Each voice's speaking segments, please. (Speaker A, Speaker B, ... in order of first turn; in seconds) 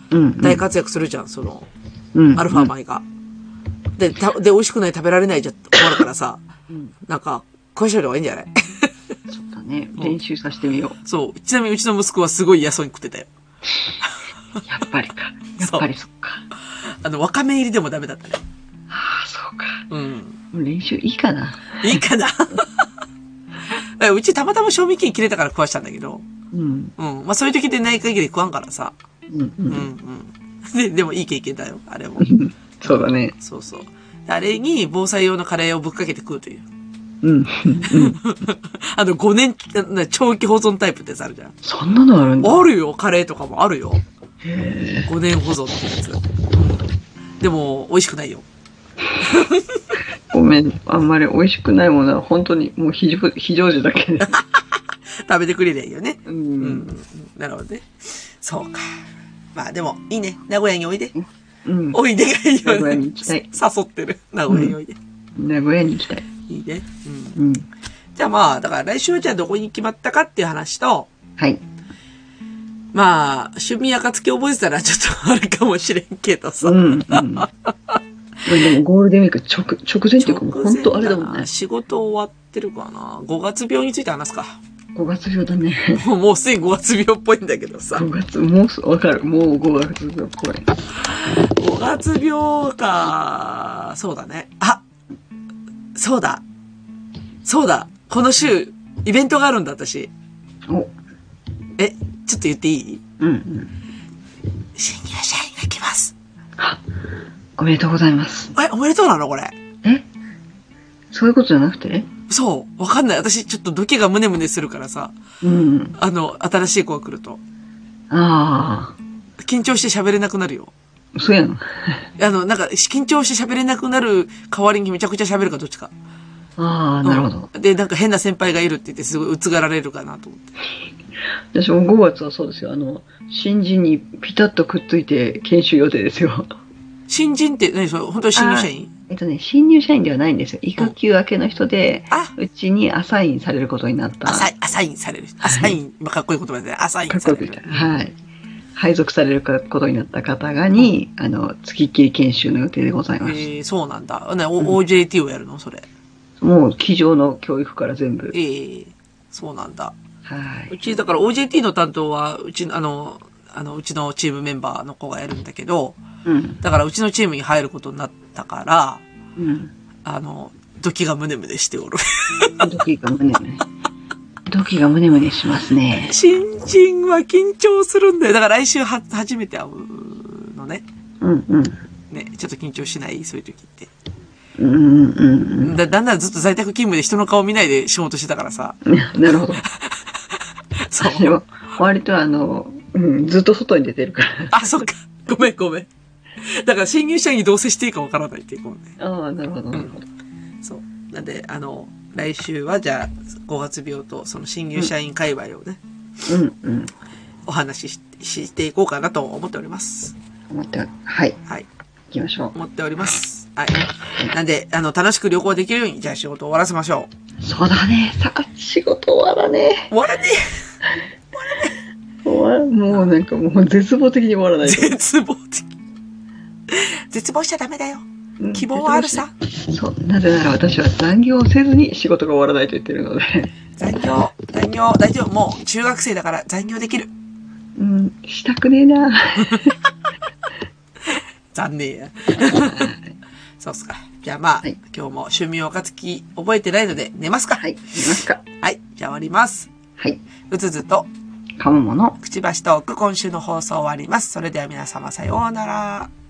Speaker A: 0.1-0.6, 2.1-2.7, 9.3-11.0, 14.6-16.4, 18.9-19.9, 20.5-22.0, 26.5-26.9, 29.3-29.9, 32.2-33.3, 37.2-38.2, 41.6-42.7, 44.4-45.1, 50.3-54.4, 56.2-56.9, 61.1-62.0, 62.6-63.5, 64.5-64.7, 65.4-66.2, 67.3-67.7, 76.6-77.5, 78.4-81.5, 84.9-86.0, 87.9-90.7, 100.7-100.9, 103.2-103.7, 107.6-108.5, 109.8-110.1, 111.1-112.1, 115.4-116.0, 118.1-119.0, 121.1-122.1, 126.6-127.5, 131.5-136.5, 138.3-144.5, 145.4-145.8, 147.1-148.1, 148.8-153.4, 156.4-158.3, 160.2-160.7, 166.2-166.6, 169.4-169.7, 172.6-173.6, 174.5-176.1, 181.2-181.8, 184.6-185.8, 188.8-189.6, 191.0-194.6, 199.0-200.1, 206.3-206.9, 210.5-211.4, 212.1-212.5, 217.4-219.9, 222.2-225.0, 228.4-233.5, 237.8-239.8, 242.4-243.1, 247.6-248.4, 251.6-252.2
Speaker B: 0.4-1.7, 2.4-3.0, 4.0-6.4, 7.0-9.1, 11.0-13.3, 14.0-14.6, 15.6-15.8, 16.7-18.4, 19.9-20.4, 21.8-22.9, 23.7-26.3, 27.0-28.9, 29.7-32.3, 32.9-36.6, 37.8-41.5, 42.4-44.0, 45.1-46.8, 47.4-48.5, 49.2-49.8, 54.2-61.1, 61.9-65.0, 66.5-67.4, 68.1-71.1, 72.9-78.0, 80.2-84.6, 85.9-88.1, 91.1-94.8, 95.9-96.4, 97.4-100.1, 101.8-103.0, 104.7-106.1, 108.5-109.5, 112.3-115.2, 116.0-117.4, 119.4-120.7, 122.2-125.9, 127.0-130.5, 137.1-138.9, 144.2-147.9, 153.2-155.9, 158.3-159.9, 160.7-166.0, 166.6-169.0, 170.0-172.7, 175.9-180.8, 182.1-183.9, 185.6-191.4, 194.5-195.9, 196.4-198.9, 200.6-205.8, 207.4-210.2, 212.5-217.1, 219.9-220.7, 221.3-221.7, 224.6-225.7, 226.7-229.3, 233.8-237.1, 241.1-242.9, 243.6-247.6, 248.6-249.7, 250.5-251.1, 252.2-256.1